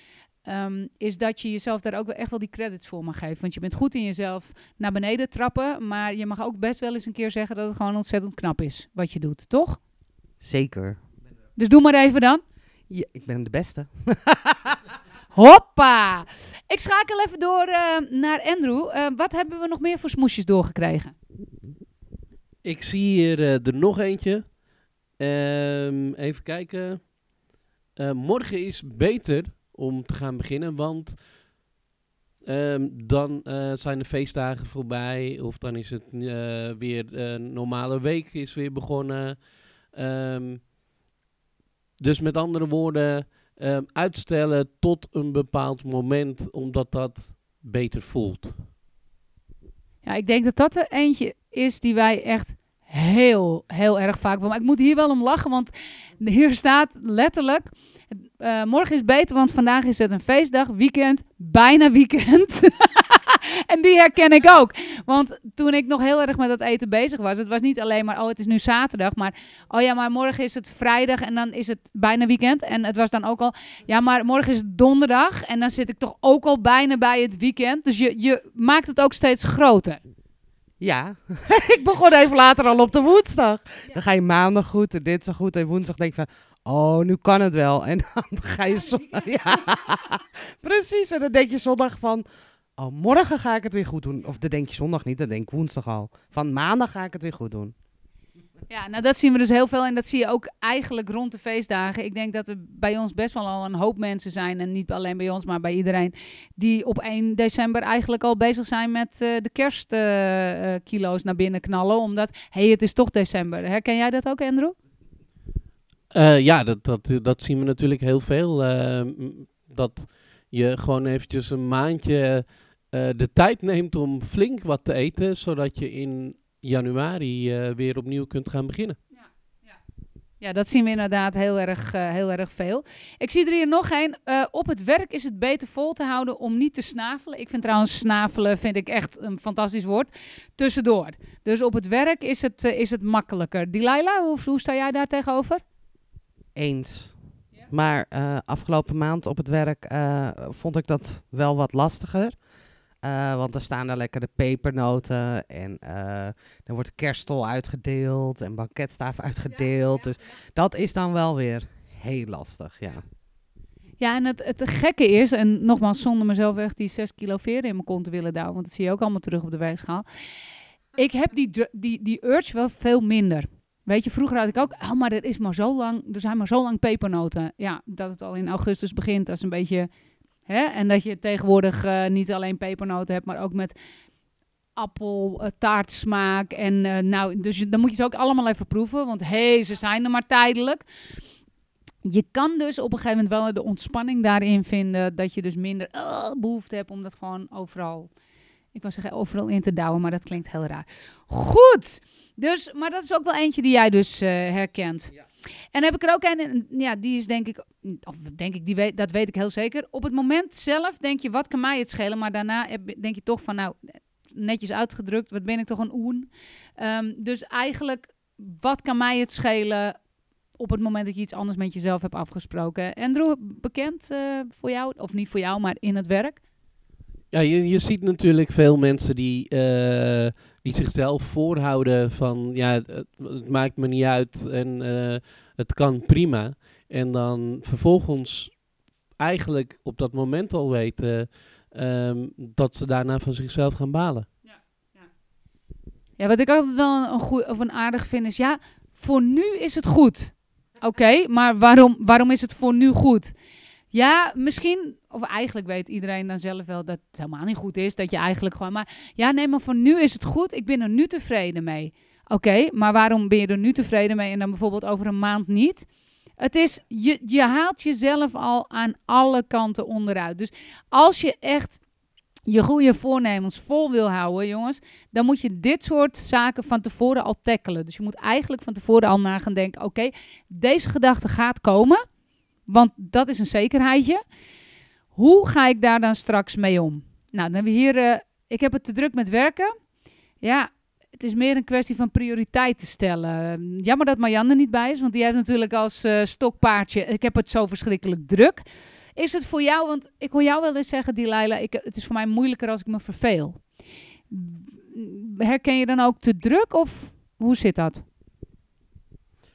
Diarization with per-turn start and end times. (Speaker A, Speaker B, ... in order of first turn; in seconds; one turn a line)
Speaker A: 0.4-9.8
Speaker B: 10.4-11.0
Speaker A: 11.6-12.4
Speaker B: 12.9-14.8
Speaker A: 15.3-21.1
Speaker C: 22.6-27.2
Speaker C: 28.0-31.3
Speaker C: 32.4-40.7
Speaker C: 42.0-48.7
Speaker A: 50.0-80.0
Speaker B: 80.8-92.3
Speaker B: 92.8-97.7
Speaker A: 98.7-114.8
Speaker C: 116.1-129.0
Speaker A: 129.1-129.7
Speaker A: 130.4-145.6
Speaker B: 146.6-152.5
Speaker B: 153.0-163.1
Speaker A: 164.0-170.1
Speaker A: 170.9-179.9
Speaker A: 180.5-183.8
Speaker A: 184.8-190.8
Speaker A: 192.0-198.1
Speaker A: 198.7-205.1
Speaker A: 205.7-220.0
Speaker A: 220.6-226.4
Speaker C: 227.3-244.3
Speaker A: 244.4-245.1
Speaker A: 246.2-253.3
Speaker A: 253.9-265.9
Speaker A: 266.4-271.8
Speaker A: 272.5-282.1
Speaker A: 282.6-284.2
Speaker A: 285.1-289.8
Speaker A: 290.4-303.7
Speaker A: 304.3-308.0